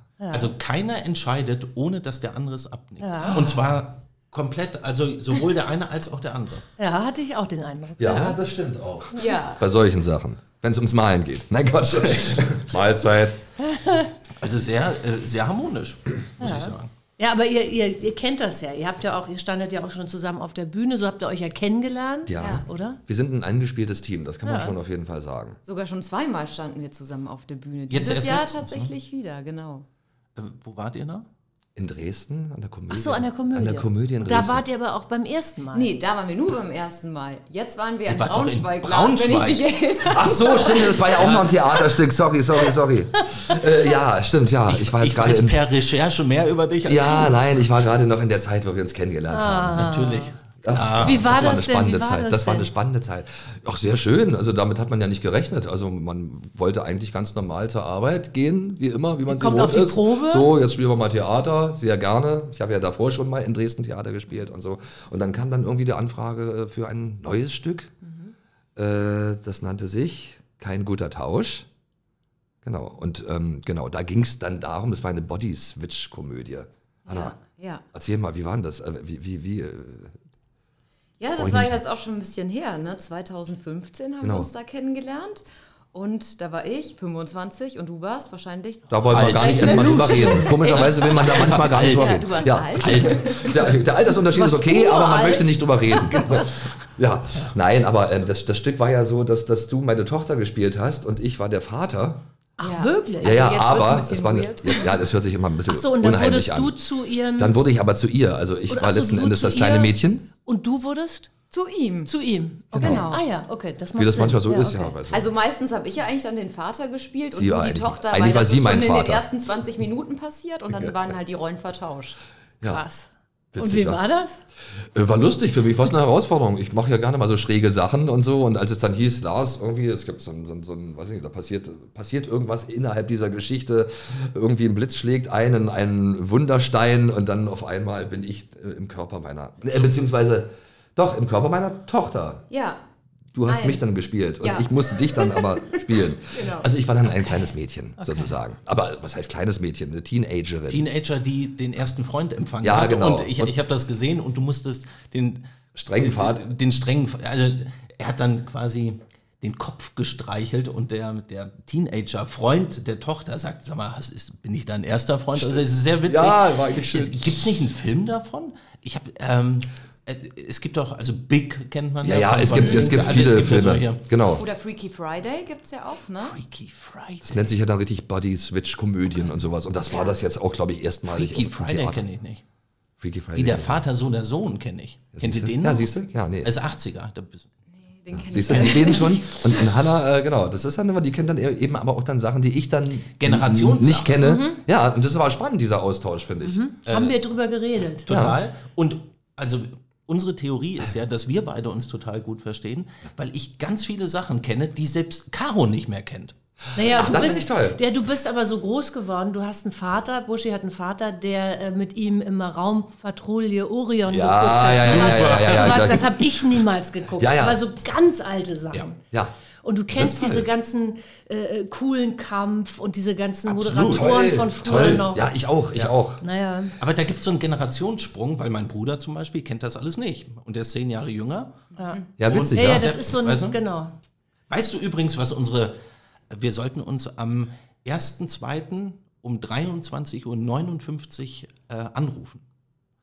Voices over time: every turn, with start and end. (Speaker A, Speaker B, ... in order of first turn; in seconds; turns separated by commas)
Speaker A: 0.2-0.5, Speaker B: 0.3-6.6, Speaker A: 3.0-3.4, Speaker A: 6.8-8.4, Speaker C: 8.0-13.4, Speaker D: 9.2-9.6, Speaker A: 13.7-14.1, Speaker B: 14.4-16.9, Speaker A: 16.4-23.0, Speaker C: 22.2-25.6, Speaker D: 22.4-22.6, Speaker A: 24.4-24.8, Speaker D: 25.6-29.9, Speaker B: 27.9-28.9, Speaker B: 30.4-31.2, Speaker C: 31.8-34.6, Speaker A: 32.9-35.9, Speaker D: 35.7-41.2, Speaker B: 38.0-39.7, Speaker C: 40.0-45.6, Speaker B: 41.1-41.5, Speaker B: 44.7-47.3, Speaker C: 46.8-50.0, Speaker A: 49.3-50.3, Speaker B: 49.7-51.3, Speaker C: 50.6-67.9, Speaker A: 51.0-52.7, Speaker A: 59.3-60.5, Speaker C: 68.8-71.7, Speaker C: 72.6-77.3, Speaker D: 77.1-77.8, Speaker C: 77.9-80.2, Speaker D: 81.2-93.7, Speaker C: 81.3-81.8, Speaker C: 84.2-84.5, Speaker C: 88.9-102.2, Speaker B: 89.1-93.7, Speaker A: 89.7-90.5, Speaker A: 94.3-96.5, Speaker A: 102.6-103.6, Speaker D: 102.6-105.0, Speaker C: 103.2-106.8, Speaker A: 105.7-107.6, Speaker C: 107.3-110.3, Speaker A: 108.7-111.3, Speaker D: 111.5-112.1, Speaker A: 112.1-114.9, Speaker C: 112.7-113.1, Speaker D: 112.7-113.2, Speaker C: 114.0-115.3, Speaker D: 115.1-122.2, Speaker C: 117.3-119.2, Speaker A: 122.6-124.4, Speaker C: 123.5-124.0, Speaker C: 124.9-142.4, Speaker D: 142.5-142.8, Speaker C: 143.3-150.8, Speaker A: 143.5-143.8, Speaker D: 144.4-145.6, Speaker A: 146.3-146.7, Speaker B: 150.7-174.0, Speaker C: 152.6-153.5, Speaker C: 155.7-156.5, Speaker C: 165.4-167.4, Speaker C: 172.0-174.4, Speaker D: 172.6-173.1, Speaker D: 174.3-176.4, Speaker B: 176.2-177.4, Speaker C: 177.2-182.0, Speaker D: 179.9-180.1, Speaker B: 181.1-182.4, Speaker C: 183.0-183.8, Speaker B: 183.3-187.5, Speaker C: 185.1-186.5, Speaker D: 187.7-189.6, Speaker C: 188.1-196.7, Speaker B: 193.2-194.2, Speaker A: 194.2-194.6, Speaker A: 196.4-198.1, Speaker B: 196.8-197.2, Speaker B: 198.0-206.3, Speaker C: 198.1-198.4, Speaker A: 206.7-218.9, Speaker C: 206.9-207.8, Speaker C: 214.1-216.3, Speaker B: 214.8-215.9, Speaker C: 217.2-217.6, Speaker A: 219.6-225.3, Speaker C: 219.9-220.5, Speaker B: 223.5-224.1, Speaker C: 223.9-226.2, Speaker B: 224.6-225.1, Speaker A: 226.2-226.7, Speaker B: 226.8-231.6, Speaker D: 231.8-232.1, Speaker C: 232.2-232.9, Speaker B: 232.2-233.6, Speaker A: 232.5-233.9, Speaker B: 234.5-235.7, Speaker B: 236.3-242.4